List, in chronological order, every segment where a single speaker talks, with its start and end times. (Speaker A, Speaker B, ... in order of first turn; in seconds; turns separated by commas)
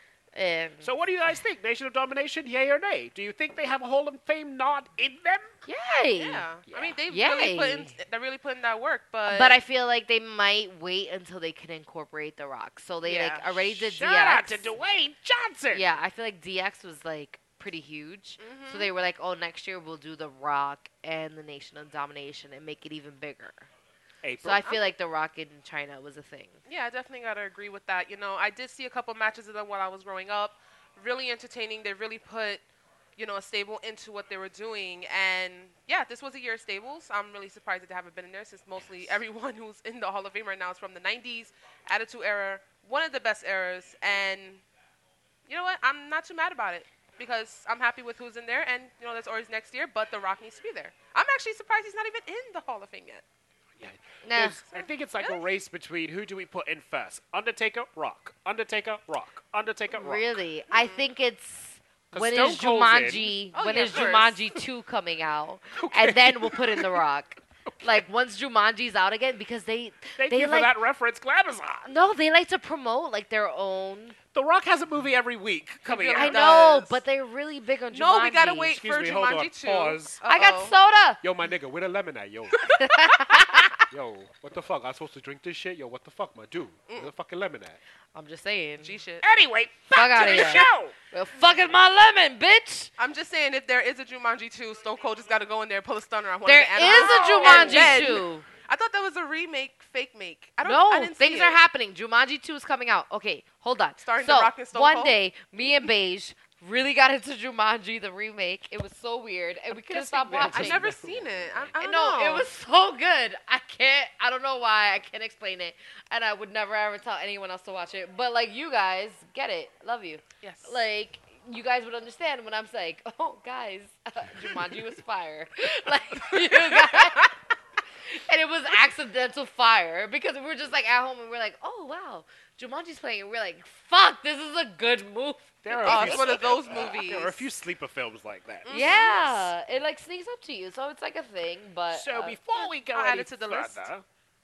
Speaker A: 0.3-0.9, Speaker B: 0.8-5.5, Speaker A: 5.7-6.5, Speaker C: 6.2-9.6, Speaker B: 6.7-7.0, Speaker A: 7.1-7.9, Speaker A: 9.3-14.7, Speaker C: 13.0-13.6, Speaker B: 13.7-15.9, Speaker A: 15.7-23.7, Speaker C: 18.4-18.9, Speaker B: 24.2-24.7, Speaker A: 24.4-26.6, Speaker C: 26.7-32.6, Speaker C: 33.2-44.6, Speaker C: 45.5-53.2, Speaker B: 53.8-60.4, Speaker A: 54.2-54.6, Speaker C: 54.7-55.4, Speaker A: 59.9-70.8, Speaker C: 60.7-61.1, Speaker B: 62.1-63.4, Speaker C: 63.5-64.5, Speaker B: 65.8-67.0, Speaker B: 70.2-71.9, Speaker A: 71.8-74.2, Speaker B: 74.3-76.7, Speaker C: 75.9-77.0, Speaker A: 76.2-78.8, Speaker C: 77.9-80.8, Speaker B: 78.7-80.2, Speaker A: 80.3-81.2, Speaker B: 81.2-82.7, Speaker A: 82.8-83.8, Speaker B: 83.8-87.8, Speaker A: 88.1-89.0, Speaker C: 88.8-89.2, Speaker B: 89.2-90.9, Speaker A: 89.9-92.9, Speaker C: 90.1-90.7, Speaker C: 93.0-101.6, Speaker A: 96.5-98.5, Speaker B: 96.8-98.2, Speaker A: 100.6-110.9, Speaker C: 104.0-105.2, Speaker B: 109.9-111.8, Speaker C: 110.2-112.5, Speaker A: 111.8-127.3, Speaker C: 120.4-120.8, Speaker C: 126.6-127.3, Speaker A: 128.1-136.3, Speaker B: 135.6-138.8, Speaker C: 135.8-137.5, Speaker C: 138.7-139.5, Speaker A: 138.7-142.4, Speaker B: 141.9-144.0, Speaker C: 142.6-143.9